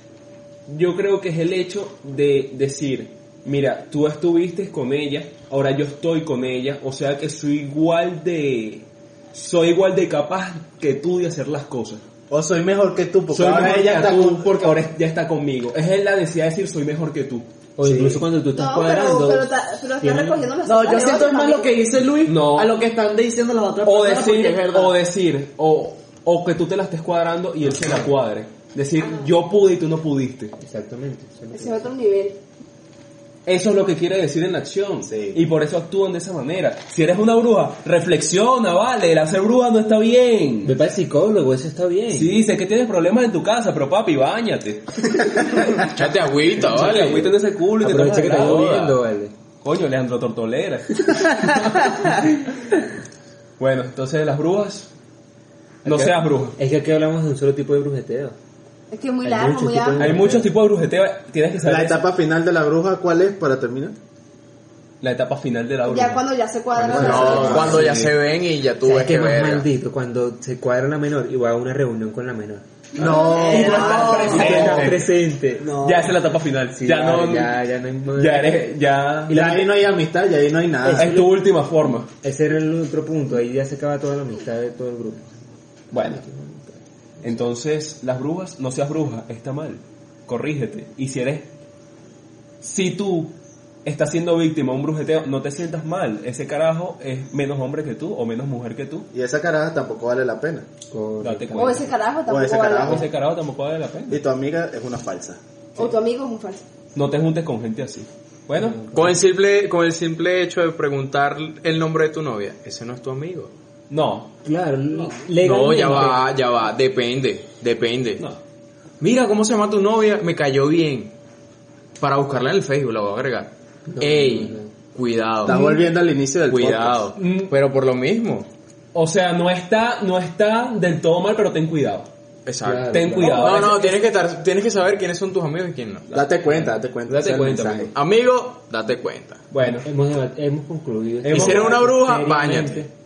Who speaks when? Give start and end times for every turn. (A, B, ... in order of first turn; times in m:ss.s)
0:00.7-0:12.0 A
0:12.3-0:14.5 B
0:13.3-0:18.2 A
0:17.8-0:20.5 C
0:18.6-0:21.7 D
0:20.6-0:25.0 E
0:22.2-0:22.8 A
0:23.8-0:30.5 A
0:30.6-0:31.9 C
0:31.5-0:32.4 D
0:33.5-0:40.7 A
0:35.0-0:35.4 B
0:40.6-0:42.4 C
0:42.1-0:45.9 A
0:45.8-0:47.4 F
0:46.6-0:48.7 A
0:47.8-0:49.3 C
0:48.4-0:49.0 F
0:49.6-0:52.5 A
0:53.6-0:54.9 A
0:55.8-0:56.6 A
0:56.6-0:58.4 C
0:58.9-1:00.2 D
0:59.2-1:00.5 C
1:00.0-1:02.0 A
1:01.6-1:04.0 B
1:05.0-1:06.2 A
1:05.8-1:07.8 D
1:06.8-1:07.9 B
1:06.8-1:08.1 A
1:07.0-1:09.7 F
1:07.2-1:07.8 C
1:08.8-1:12.6 C
1:13.0-1:14.6 D
1:13.0-1:14.9 B
1:13.4-1:14.2 E
1:13.5-1:15.7 C
1:13.8-1:15.0 A
1:15.6-1:16.1 E
1:15.8-1:17.6 A
1:16.8-1:18.7 C
1:18.2-1:19.6 A
1:19.3-1:19.6 C
1:19.3-1:21.1 B
1:20.8-1:21.4 C
1:21.0-1:22.1 A
1:22.2-1:25.3 C
1:25.9-1:26.2 A
1:25.9-1:26.8 C
1:27.2-1:31.5 A
1:32.6-1:33.3 A
1:33.8-1:39.1 A
1:39.1-1:40.7 B
1:40.9-1:41.9 C
1:41.2-1:41.9 A
1:41.5-1:43.0 D
1:42.3-1:43.0 B
1:42.8-1:44.2 A
1:44.1-1:45.4 B
1:45.8-1:46.6 D
1:47.0-1:48.8 A
1:48.6-1:49.2 C
1:48.9-1:53.5 F
1:53.9-1:54.3 A
1:54.4-1:56.2 C
1:55.4-1:58.2 F
1:59.0-2:01.1 F
2:02.0-2:05.6 F
2:03.9-2:04.7 C
2:05.5-2:07.1 B
2:05.5-2:05.8 D
2:06.5-2:08.5 F
2:07.2-2:07.5 A
2:08.9-2:12.1 A
2:12.5-2:16.1 F
2:12.6-2:13.6 C
2:12.9-2:13.9 A
2:13.2-2:13.4 D
2:16.1-2:16.6 A
2:16.1-2:17.9 B
2:17.1-2:17.9 A
2:17.9-2:19.4 F
2:19.5-2:19.9 A
2:19.6-2:22.9 C
2:21.2-2:21.8 A
2:21.3-2:22.8 F